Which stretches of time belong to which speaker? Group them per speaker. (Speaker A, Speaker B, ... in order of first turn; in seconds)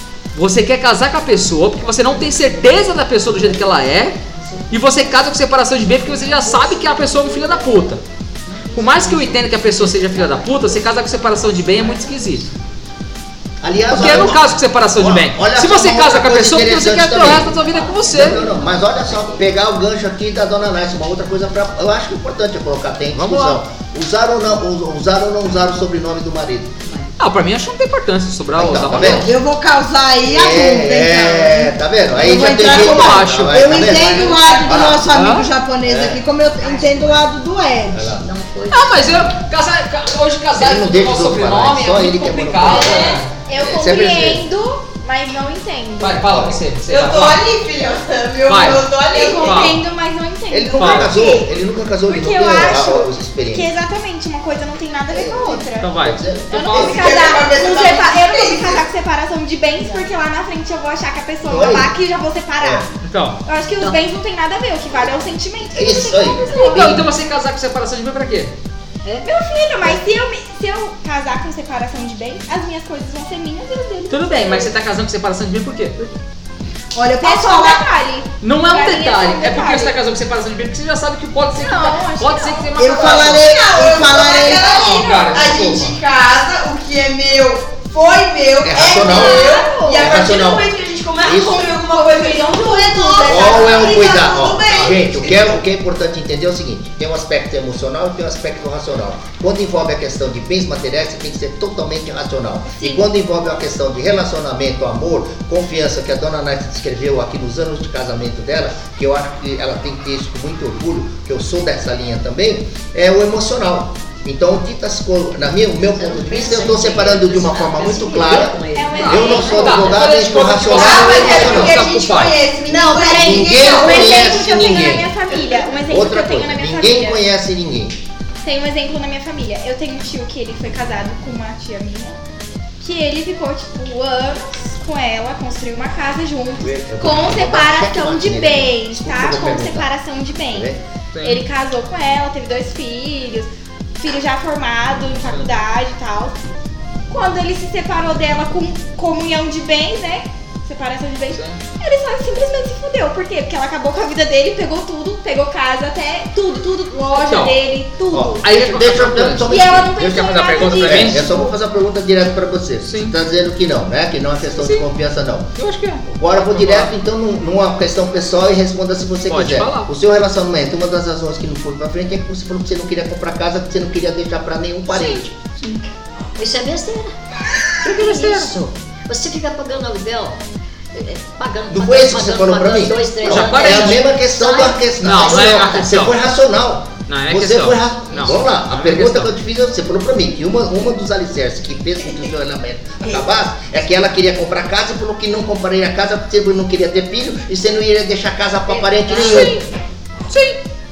Speaker A: 0.3-8.0, 8.8-12.4, 13.9-18.4, 23.1-23.6, 27.2-29.3, 32.3-34.0, 35.1-35.5, 38.7-43.3, 46.0-47.4, 48.5-49.8, 50.8-51.1, 55.8-57.0, 63.0-63.4, 66.5-68.5, 74.1-76.1, 78.4-86.0, 94.7-95.0, 119.1-122.4, 141.1-141.4, 151.3-151.6, 157.1-157.6, 158.4-161.3, 162.8-163.1, 164.5-164.9, 165.6-166.9, 169.3-169.9, 177.8-178.5, 183.2-184.1, 185.0-186.2, 187.1-189.3, 199.1-199.6, 200.3-200.6
Speaker B: 2.3-5.2, 5.8-12.5, 17.4-19.5, 26.8-27.2, 36.6-37.2, 38.2-39.3, 115.9-120.1, 176.3-177.1, 177.8-180.4, 180.9-185.9, 198.7-199.5
Speaker C: 13.6-26.7, 28.6-29.3, 30.2-35.1, 35.8-36.2, 37.9-38.2, 40.6-44.4, 46.3-46.6, 50.5-53.7, 55.1-57.0, 61.4-61.9, 62.6-62.8, 65.7-67.0, 88.6-90.7, 91.2-91.7, 93.2-121.8, 123.1-128.0, 136.6-139.9, 140.4-140.8, 158.1-165.5, 166.1-175.4, 181.7-199.6
Speaker D: 29.1-38.2, 76.9-77.8, 82.8-84.7
Speaker E: 33.8-35.0, 42.6-43.2, 46.8-49.7, 56.7-58.9, 82.9-95.2, 120.7-124.3
Speaker F: 43.5-46.4, 49.1-51.5, 52.1-62.9, 63.4-67.0, 69.2-74.7, 77.2-80.0, 81.5-82.8, 89.0-90.1, 91.9-94.0, 102.7-103.0, 118.7-119.9, 122.7-127.2, 128.4-132.2, 132.8-140.7, 141.2-146.4, 147.1-158.4, 159.4-161.5